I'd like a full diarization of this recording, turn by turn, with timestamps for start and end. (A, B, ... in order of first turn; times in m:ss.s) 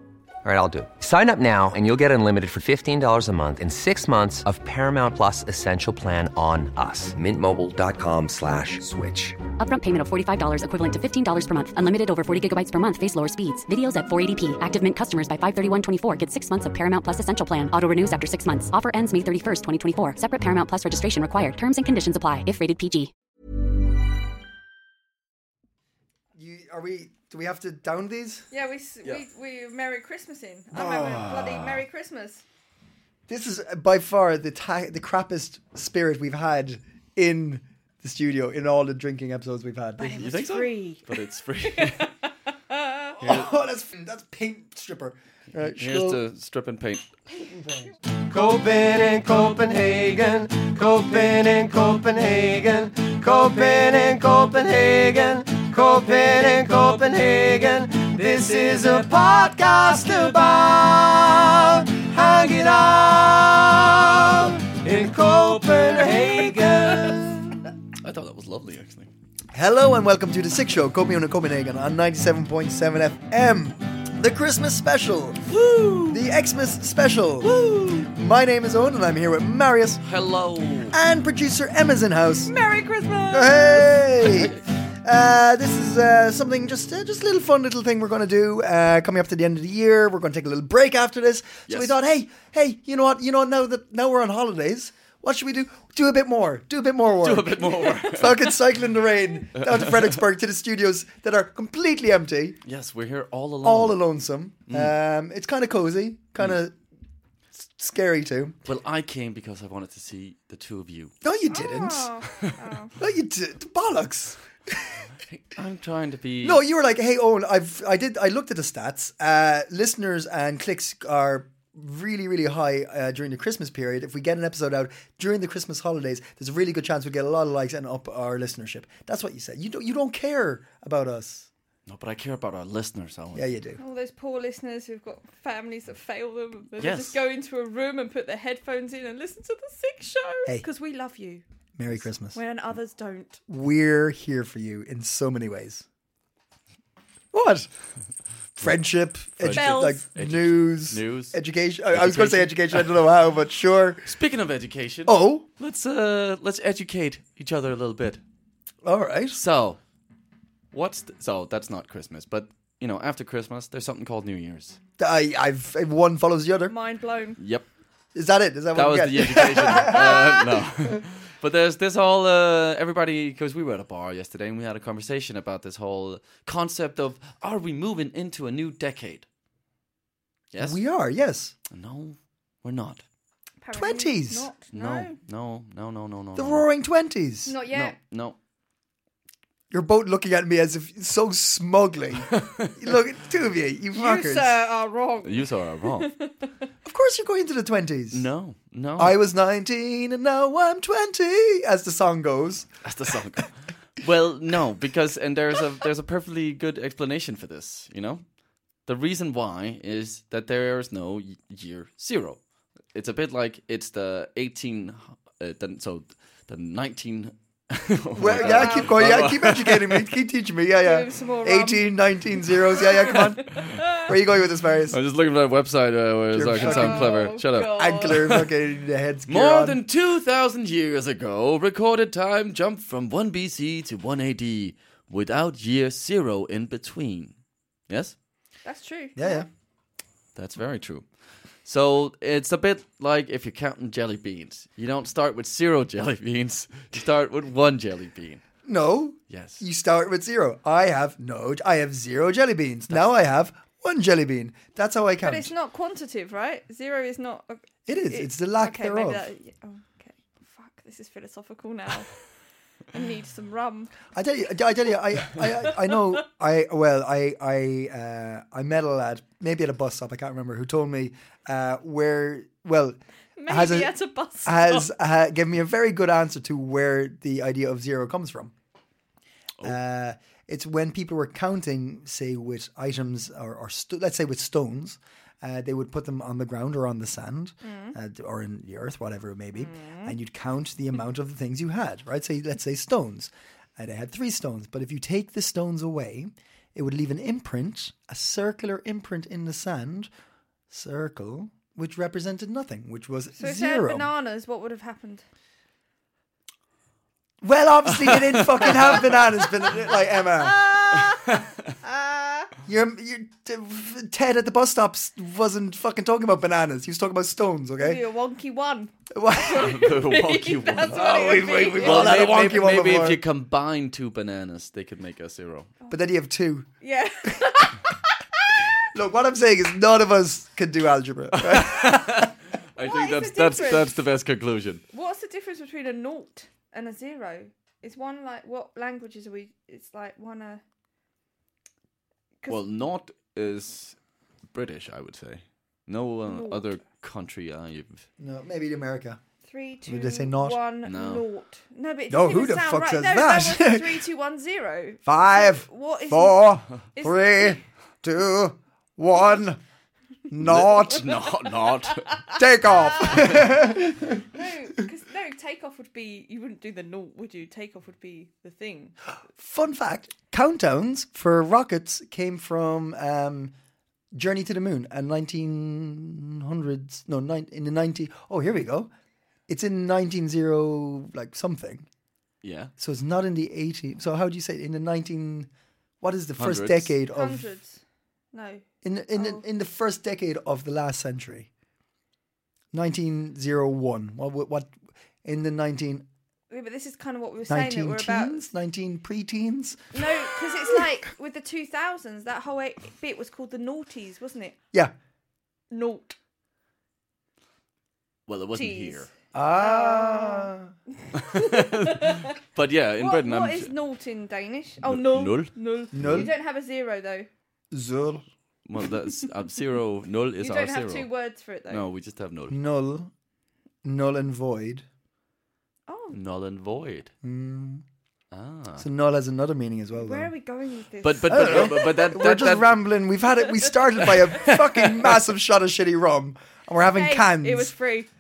0:00.4-0:09.4 A
0:09.6-0:23.1 B
0:26.4-0:28.5 C
0:28.5-0:32.4 D
0:30.7-0:31.8 C
0:33.3-0:40.4 C
0:40.0-0:43.2 D
0:40.1-0:42.1 E
0:43.2-0:46.2 C
0:43.2-0:43.5 E
0:45.8-0:47.1 E
0:47.5-0:47.9 C
0:48.3-1:07.7 F
1:08.0-1:09.1 E
1:09.5-1:15.5 C
1:15.5-1:16.2 E
1:16.1-1:20.0 C
1:17.4-1:18.1 E
1:20.0-1:21.0 E
1:20.9-1:22.5 C
1:22.5-1:24.0 D
1:23.3-1:42.6 C
1:24.2-1:24.6 E
1:31.7-1:31.9 E
1:37.2-1:38.4 E
1:39.6-1:40.2 E
1:42.6-1:44.0 E
1:43.6-1:46.8 C
1:44.7-1:44.9 E
1:47.5-1:48.6 C
1:48.6-1:51.2 E
1:51.2-1:52.1 C
1:51.5-1:53.0 D
1:53.0-1:55.1 C
1:55.2-1:56.6 E
1:56.4-2:11.5 C
2:11.9-2:13.4 E
2:13.3-2:13.8 C
2:13.8-2:23.4 D
2:16.8-2:17.2 E
2:21.8-2:22.4 C
2:23.5-2:25.9 C
2:27.3-2:27.7 C
2:28.6-2:34.2 C
2:29.4-2:31.4 E
2:29.5-2:30.0 D
2:31.9-2:32.9 E
2:34.1-2:38.2 E
2:35.0-2:35.5 C
2:38.8-2:39.4 C
2:39.4-2:39.8 E
2:40.7-2:44.8 E
2:45.0-2:46.7 C
2:46.7-2:47.4 D
2:47.4-2:47.7 E
2:48.2-2:50.3 C
2:48.7-2:59.3 E
2:49.9-2:50.4 D
3:00.5-3:00.8 E
3:00.6-3:01.6 C
3:01.7-3:03.0 E
3:03.6-3:05.2 D
3:03.7-3:04.5 C
3:04.7-3:06.6 E
3:06.4-3:07.6 C
3:07.5-3:08.0 D
3:07.7-3:08.4 E
3:09.7-3:14.6 C
3:12.3-3:12.9 E
3:13.9-3:16.5 D
3:15.2-3:16.1 E
3:16.8-3:18.3 C
3:18.1-3:19.2 E
3:19.0-3:22.7 C
3:22.8-3:28.3 E
3:28.9-3:32.4 E
3:32.9-3:40.1 E
3:38.2-3:45.0 C
3:38.4-3:39.0 D
3:40.8-3:44.1 D
3:44.9-3:48.5 E
3:46.3-3:47.2 C
3:46.6-3:48.3 D
3:47.8-3:49.8 C
3:49.3-3:57.4 E
3:57.9-3:58.2 E
3:58.6-3:59.5 D
3:59.2-3:59.5 C
4:00.4-4:01.1 E
4:01.6-4:08.4 E
4:08.6-4:15.5 C
4:09.3-4:09.6 E
4:15.2-4:22.2 D
4:17.9-4:19.2 C
4:22.9-4:23.9 D
4:24.1-4:38.5 C
4:33.4-4:34.9 D
4:39.6-5:00.1 C
4:47.6-4:48.0 D
4:49.6-4:50.2 D
5:00.7-5:04.1 C
5:03.4-5:05.2 D
5:07.4-5:10.6 C
5:10.2-5:12.5 D
5:12.7-5:18.0 C
5:17.8-5:22.3 D
5:19.1-5:19.7 C
5:19.5-5:25.7 E
5:20.9-5:23.2 C
5:25.9-5:26.7 C
5:26.8-5:28.0 D
5:28.9-5:32.3 C
5:31.3-5:34.8 E
5:32.8-5:33.9 D
5:34.9-5:40.6 D
5:42.5-5:44.0 E
5:44.5-5:48.1 E
5:46.3-5:46.7 D
5:48.2-5:49.2 C
5:49.4-5:57.6 D
5:49.9-5:50.6 C
5:50.8-5:51.3 E
5:52.1-5:54.0 C
5:55.1-5:59.6 C
6:00.3-6:01.1 C
6:00.4-6:02.2 E
6:02.2-6:03.8 D
6:02.4-6:04.2 C
6:04.3-6:09.0 D
6:09.4-6:13.5 C
6:14.1-6:18.9 C
6:19.5-6:21.9 C
6:22.4-6:22.7 E
6:22.8-6:27.4 C
6:26.4-6:26.9 E
6:27.1-6:27.8 D
6:28.3-6:29.4 D
6:28.8-6:31.5 C
6:32.7-6:34.7 C
6:35.2-6:36.1 C
6:36.5-6:38.4 D
6:37.5-6:39.9 C
6:39.9-6:44.6 D
6:45.7-6:46.2 D
6:48.3-6:49.1 E
6:48.5-6:50.5 D
6:49.3-6:50.7 C
6:51.1-6:52.3 D
6:51.2-6:53.7 E
6:53.0-6:57.3 D
6:54.8-6:56.3 E
6:55.9-6:56.3 C
6:57.7-6:58.2 C
6:58.7-7:01.1 E
7:00.4-7:01.8 D
7:01.7-7:02.6 E
7:02.5-7:03.1 C
7:03.8-7:04.8 C
7:05.9-7:06.2 D
7:06.1-7:07.1 E
7:07.2-7:07.8 C
7:08.3-7:08.9 E
7:08.8-7:10.3 C
7:10.0-7:12.0 D
7:11.0-7:12.8 E
7:11.3-7:17.8 C
7:14.1-7:15.1 E
7:16.9-7:18.1 D